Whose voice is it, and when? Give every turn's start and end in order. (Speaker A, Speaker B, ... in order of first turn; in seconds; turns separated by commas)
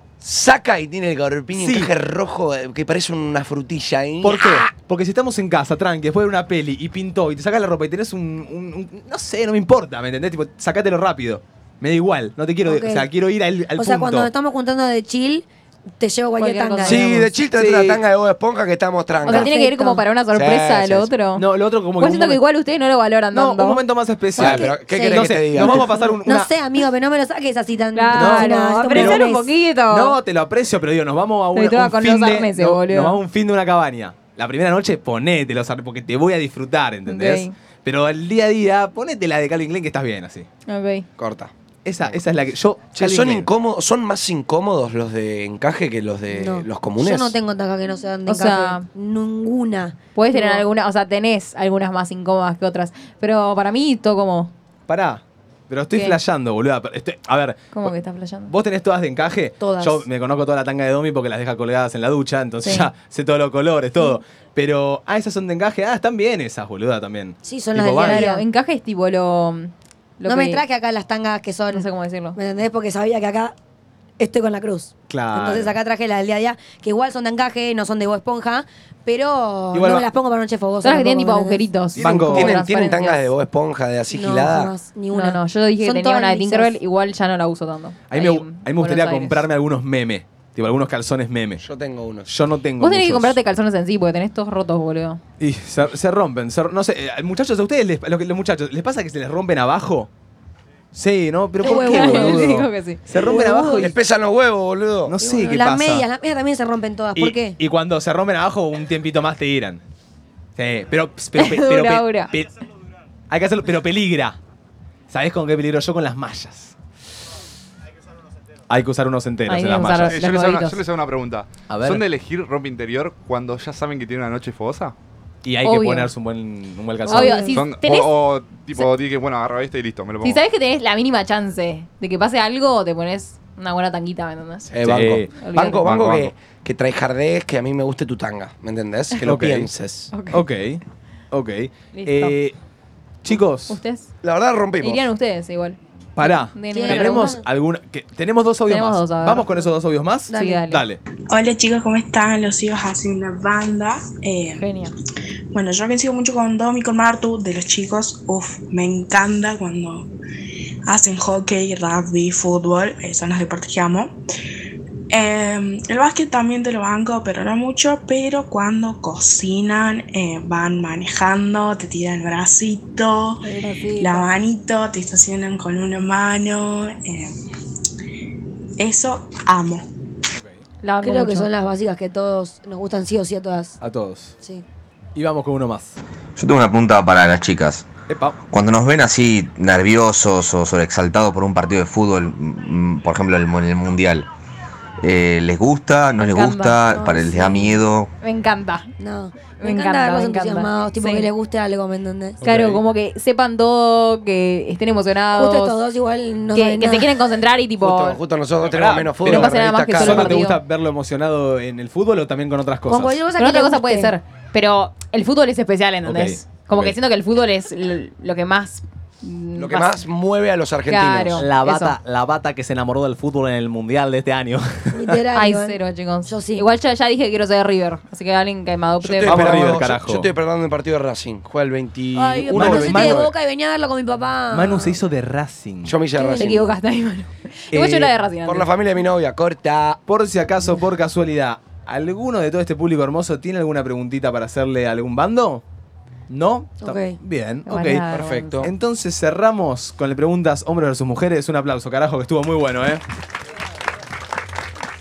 Speaker A: 0.2-4.7, Speaker B: 1.5-1.9, Speaker B: 4.2-14.3, Speaker C: 12.6-13.1, Speaker C: 13.8-15.5, Speaker C: 16.0-17.1, Speaker D: 16.4-17.2, Speaker A: 16.9-19.5, Speaker B: 17.5-18.0, Speaker C: 19.2-20.1, Speaker D: 19.3-21.5, Speaker A: 20.3-21.1, Speaker B: 21.4-22.4, Speaker D: 22.0-23.8, Speaker B: 23.3-26.5, Speaker A: 24.4-26.0, Speaker C: 24.4-29.5, Speaker D: 27.9-30.2, Speaker B: 28.1-29.3, Speaker B: 29.9-40.5, Speaker D: 31.6-33.2, Speaker D: 37.1-37.5, Speaker D: 40.7-41.1, Speaker A: 41.2-41.5, Speaker B: 41.9-43.5, Speaker A: 43.0-47.3, Speaker C: 46.3-50.6, Speaker D: 48.3-48.9, Speaker D: 50.1-54.5, Speaker B: 54.9-57.9, Speaker D: 55.9-56.2, Speaker D: 57.7-58.5, Speaker B: 58.5-68.3, Speaker C: 59.6-60.0, Speaker D: 62.6-62.9, Speaker C: 67.4-68.4, Speaker D: 68.0-70.6, Speaker C: 70.2-73.5, Speaker D: 71.7-72.4, Speaker C: 74.2-81.7, Speaker B: 75.1-75.7, Speaker B: 79.7-80.1, Speaker D: 80.8-83.3, Speaker B: 82.0-82.6, Speaker A: 82.0-84.7, Speaker C: 84.1-86.8, Speaker D: 85.1-89.5, Speaker B: 88.1-91.6, Speaker A: 91.6-92.3, Speaker B: 92.3-93.4, Speaker D: 92.8-95.2, Speaker B: 95.4-100.1, Speaker B: 100.9-104.0, Speaker C: 101.6-102.5, Speaker D: 101.6-103.0, Speaker C: 103.2-104.0, Speaker A: 103.7-105.2, Speaker B: 105.1-106.1, Speaker C: 105.2-107.6, Speaker B: 107.2-109.8, Speaker B: 110.6-112.5, Speaker D: 111.4-112.3, Speaker B: 113.3-114.4, Speaker B: 115.1-116.8, Speaker B: 118.7-120.2, Speaker D: 119.5-120.8, Speaker E: 120.1-124.9, Speaker B: 121.7-122.1, Speaker B: 125.5-127.4, Speaker D: 125.6-126.1, Speaker C: 127.1-127.6, Speaker D: 127.1-128.1, Speaker E: 127.5-130.4, Speaker D: 130.2-134.7, Speaker A: 134.7-140.1, Speaker B: 134.8-135.3, Speaker D: 135.4-135.8, Speaker E: 135.8-136.3, Speaker B: 139.2-139.7, Speaker D: 140.1-140.4, Speaker B: 140.3-142.6, Speaker D: 141.9-142.4, Speaker B: 143.2-143.8, Speaker D: 143.7-144.1, Speaker A: 144.2-145.0, Speaker D: 144.8-147.4, Speaker B: 146.2-151.0, Speaker C: 146.7-147.4, Speaker D: 148.7-149.7, Speaker C: 150.3-150.6, Speaker D: 150.3-150.9, Speaker F: 151.3-154.7, Speaker D: 154.6-154.9, Speaker F: 155.5-160.1, Speaker F: 160.9-164.2, Speaker F: 165.1-173.5, Speaker D: 173.4-174.3, Speaker F: 174.0-177.4, Speaker F: 178.8-179.9, Speaker B: 180.4-180.6, Speaker D: 180.8-181.5, Speaker C: 181.0-183.8, Speaker B: 183.8-184.3, Speaker B: 185.2-186.0, Speaker G: 186.4-187.9, Speaker B: 188.1-188.4, Speaker G: 188.5-194.3, Speaker G: 195.0-198.1, Speaker D: 196.2-196.8, Speaker C: 196.9-197.8, Speaker D: 198.2-198.9, Speaker C: 199.0-202.4, Speaker D: 199.6-201.3, Speaker B: 202.4-202.8, Speaker D: 202.4-205.8, Speaker C: 205.3-207.1, Speaker D: 206.6-208.2, Speaker A: 207.8-210.4, Speaker B: 208.6-213.2, Speaker D: 209.2-210.6, Speaker C: 212.9-214.2, Speaker D: 213.4-220.0, Speaker B: 216.1-216.9, Speaker A: 219.6-221.5, Speaker D: 220.9-222.0, Speaker B: 221.4-225.2, Speaker C: 224.9-226.7, Speaker D: 225.3-229.7, Speaker A: 229.0-233.2, Speaker B: 229.2-230.3, Speaker C: 232.1-235.0, Speaker B: 232.5-233.3, Speaker B: 234.5-235.9, Speaker A: 235.8-236.7, Speaker C: 236.2-236.7, Speaker D: 236.3-238.7, Speaker B: 237.7-238.1, Speaker A: 238.4-240.0, Speaker B: 240.1-245.6, Speaker B: 246.3-248.1, Speaker C: 246.8-247.2, Speaker D: 247.7-248.6, Speaker A: 248.1-248.7, Speaker B: 248.6-253.0